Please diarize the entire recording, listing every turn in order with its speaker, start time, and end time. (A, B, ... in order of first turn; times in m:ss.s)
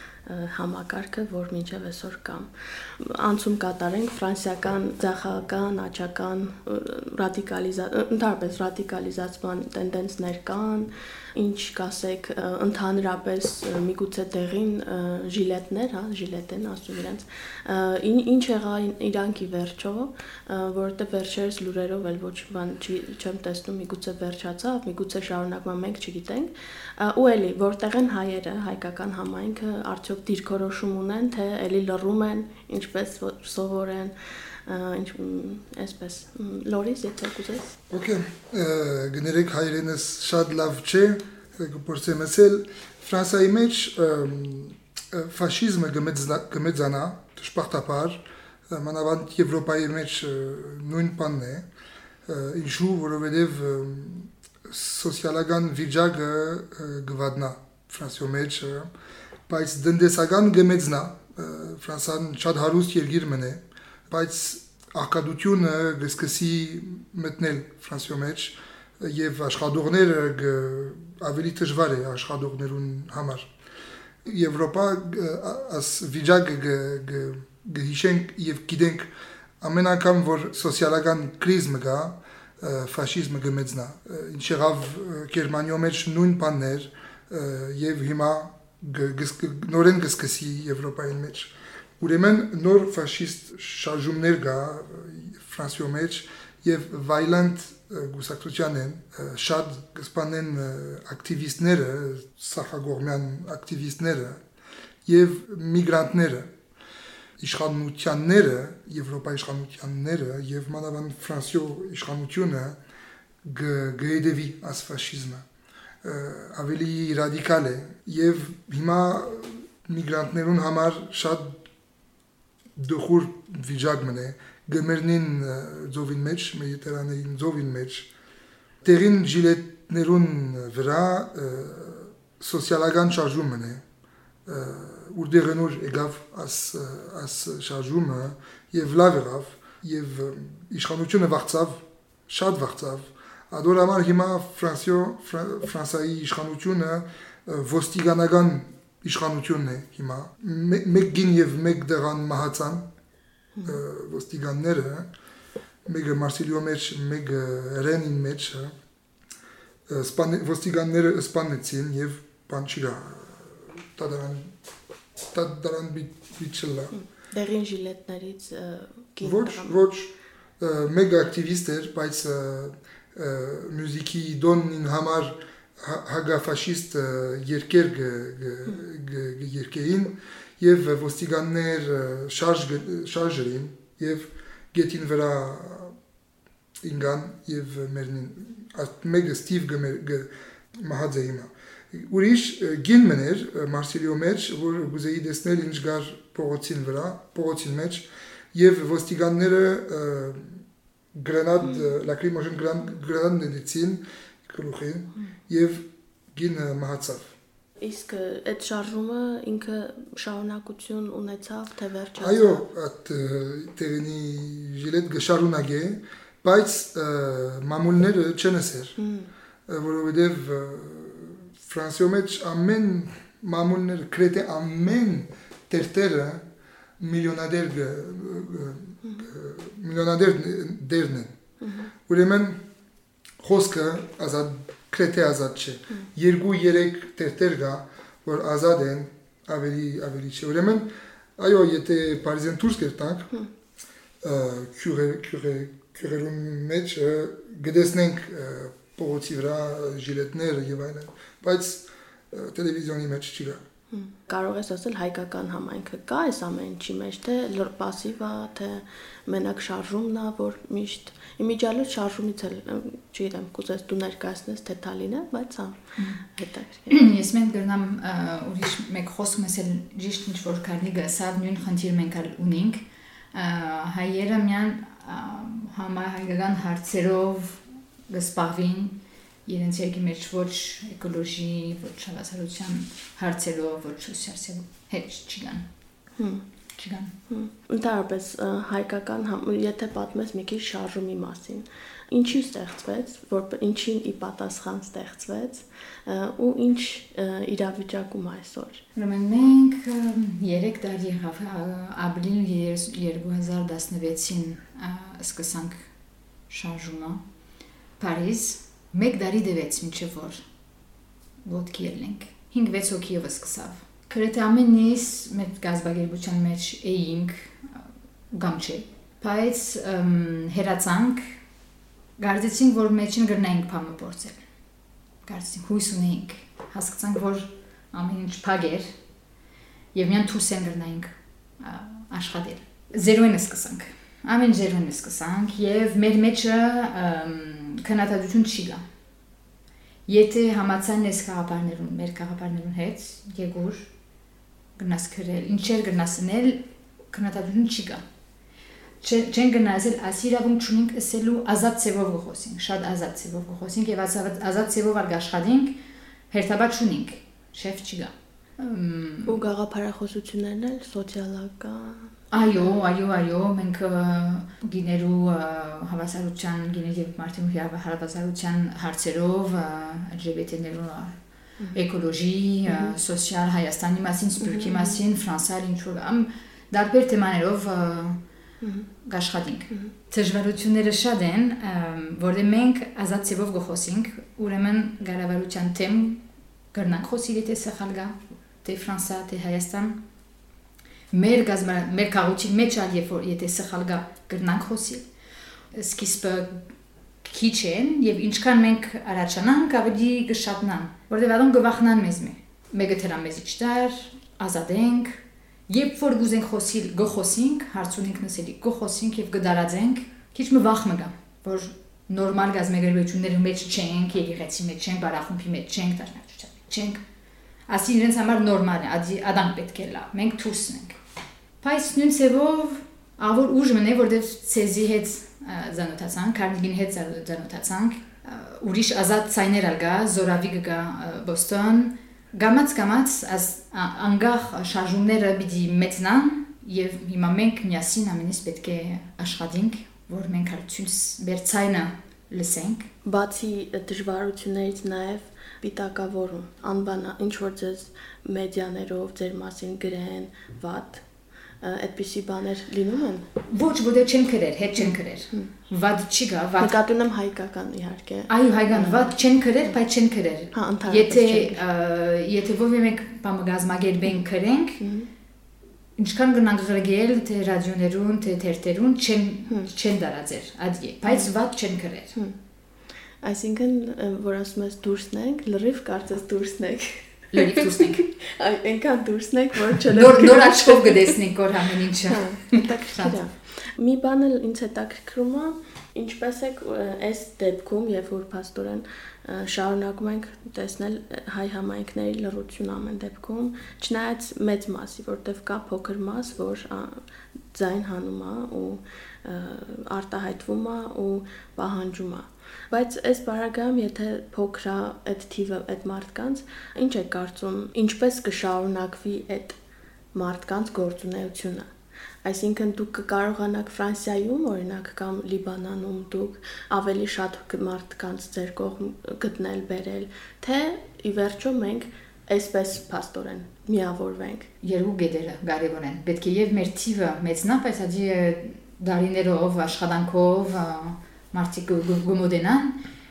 0:00.3-0:34.1 A
0:34.7-0:37.8 A
0:37.9-0:51.7 B
0:52.3-0:58.9 B
0:59.5-1:13.5 B
1:14.2-1:19.1 B
1:19.6-1:44.4 B
1:45.1-1:46.5 B
1:47.4-1:52.8 B
1:53.4-1:55.4 B
1:56.0-2:01.6 B
2:02.8-2:08.1 B
2:08.8-2:13.8 B
2:14.5-2:32.8 B
2:33.6-2:35.1 B
2:35.9-2:38.8 B
2:39.9-2:44.5 B
2:45.3-2:46.9 B
2:46.9-2:49.8 A
2:49.2-3:06.0 B
3:06.8-3:20.6 B
3:21.2-3:27.3 B
3:27.8-3:32.6 A
3:32.2-3:39.0 B
3:39.0-3:39.3 A
3:39.7-3:46.4 B
3:47.0-3:51.3 B
3:51.6-3:51.9 A
3:52.1-3:52.6 B
3:53.4-4:03.3 B
4:04.2-4:13.6 B
4:13.9-4:27.0 A
4:26.9-4:45.7 C
4:46.2-4:46.4 A
4:46.8-4:47.2 C
4:47.3-4:58.8 A
4:59.0-5:05.8 C
5:06.5-5:07.2 C
5:08.0-5:10.4 C
5:11.4-5:17.7 C
5:18.3-5:21.3 C
5:22.2-5:24.4 C
5:25.2-5:28.9 C
5:29.9-5:38.8 C
5:40.1-5:43.9 C
5:44.8-5:48.0 C
5:49.0-5:55.8 C
5:56.3-5:59.4 C
5:59.3-6:02.1 A
6:02.3-6:11.2 C
6:11.7-6:18.2 C
6:14.4-6:15.0 A
6:19.0-6:30.0 C
6:31.1-6:35.1 C
6:35.7-6:36.6 C
6:37.2-6:57.0 C
6:57.7-7:01.0 C
7:01.6-7:22.9 C
7:23.0-7:31.0 A
7:31.6-7:33.3 A
7:33.5-7:36.8 C
7:36.6-7:39.1 A
7:38.3-7:44.8 C
7:40.5-7:41.6 A
7:44.8-7:45.1 A
7:46.0-7:52.2 C
7:53.2-8:01.1 A
7:57.3-7:58.0 C
7:59.9-8:03.2 C
8:02.1-8:17.0 A
8:17.5-8:29.6 A
8:30.1-8:31.7 A
8:32.2-8:44.5 A
8:44.6-8:52.8 C